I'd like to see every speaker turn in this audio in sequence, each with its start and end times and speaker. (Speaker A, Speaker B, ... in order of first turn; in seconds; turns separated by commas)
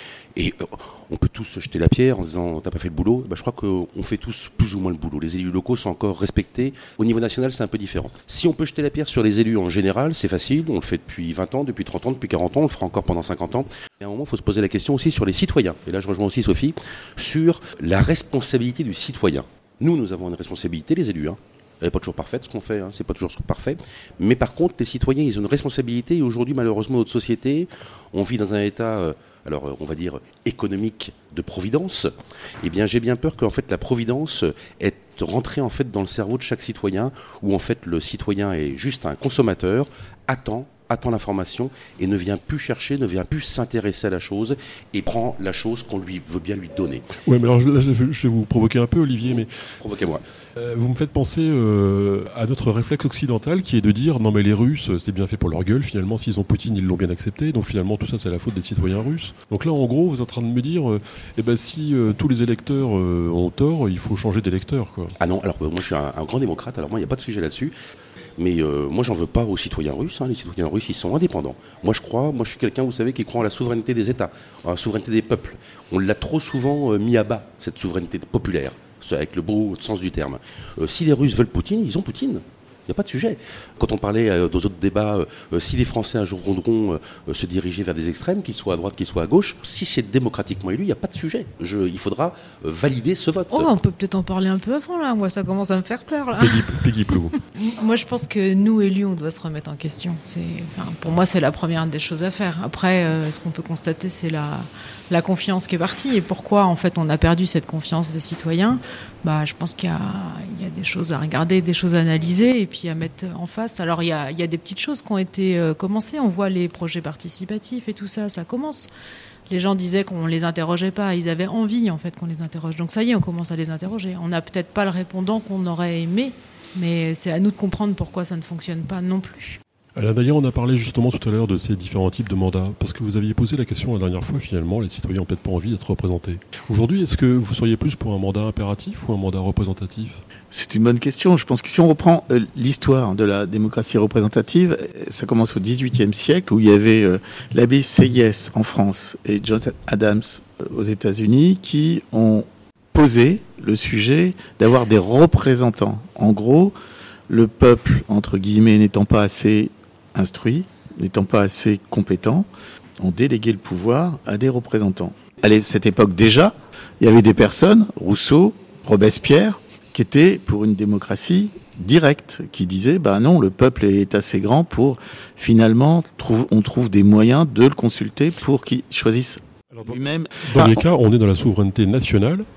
Speaker A: 0.4-47.1, Speaker B: 47.2-65.2, Speaker A: 49.8-50.2, Speaker A: 65.2-67.7, Speaker A: 68.4-93.7, Speaker C: 93.5-118.9, Speaker B: 96.4-97.3, Speaker C: 119.5-129.6, Speaker B: 130.0-140.2, Speaker D: 140.5-156.7, Speaker D: 157.3-162.5, Speaker D: 163.0-180.9, Speaker B: 179.7-182.5